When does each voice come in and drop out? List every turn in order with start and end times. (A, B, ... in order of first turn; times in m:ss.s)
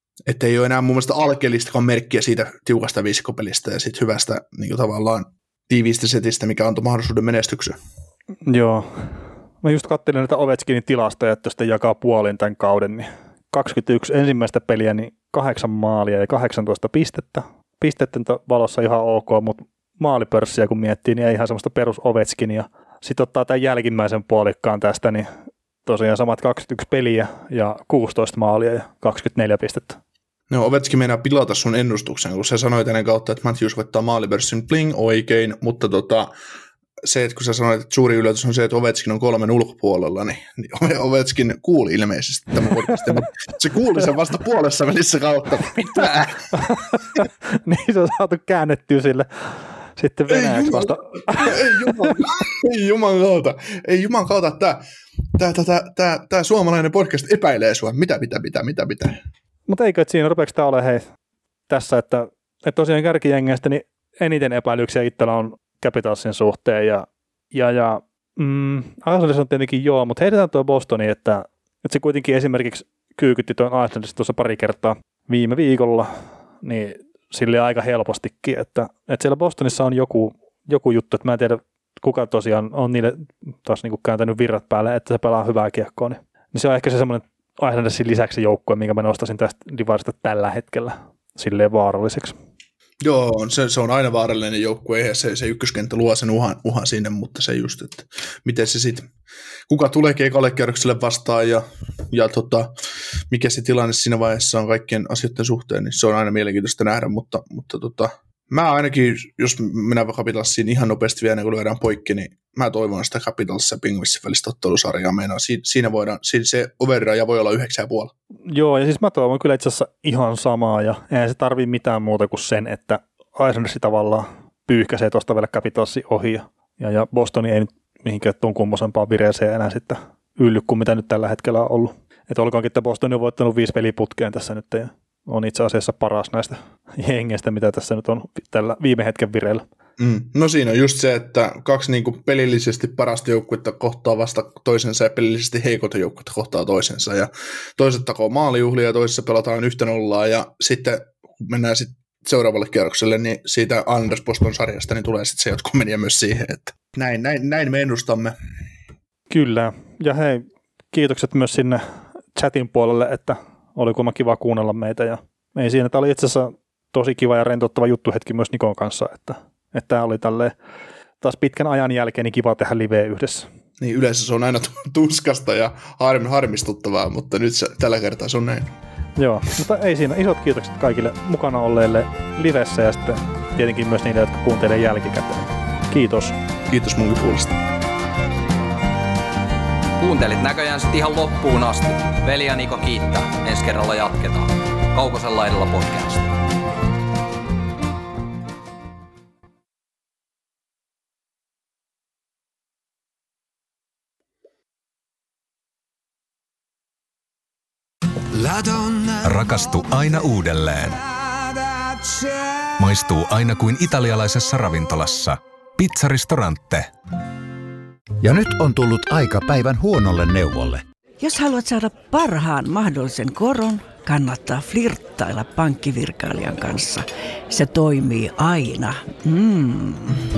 0:00.3-0:07.8 A
0:08.5-0:25.3 B
0:25.8-0:30.0 B
0:30.5-0:36.3 A
0:37.0-0:46.9 A
0:42.7-0:43.2 B
0:46.5-0:52.2 B
0:50.3-0:54.8 A
0:55.3-0:59.2 A
0:59.7-1:01.0 B
1:01.7-1:16.1 B
1:16.6-1:32.4 B
1:33.0-1:39.1 A
1:39.7-1:42.7 A
1:43.3-1:58.1 A
1:58.5-2:19.6 B
2:20.0-2:38.3 A
2:39.3-2:41.8 B
2:42.4-2:50.5 B
2:51.2-2:53.5 B
2:53.8-2:58.7 A
2:59.2-3:06.4 B
3:06.7-3:07.6 A
3:10.0-3:16.3 C
3:28.3-3:31.1 D
3:31.9-3:36.9 D
3:38.2-3:40.8 E
3:41.2-3:50.2 F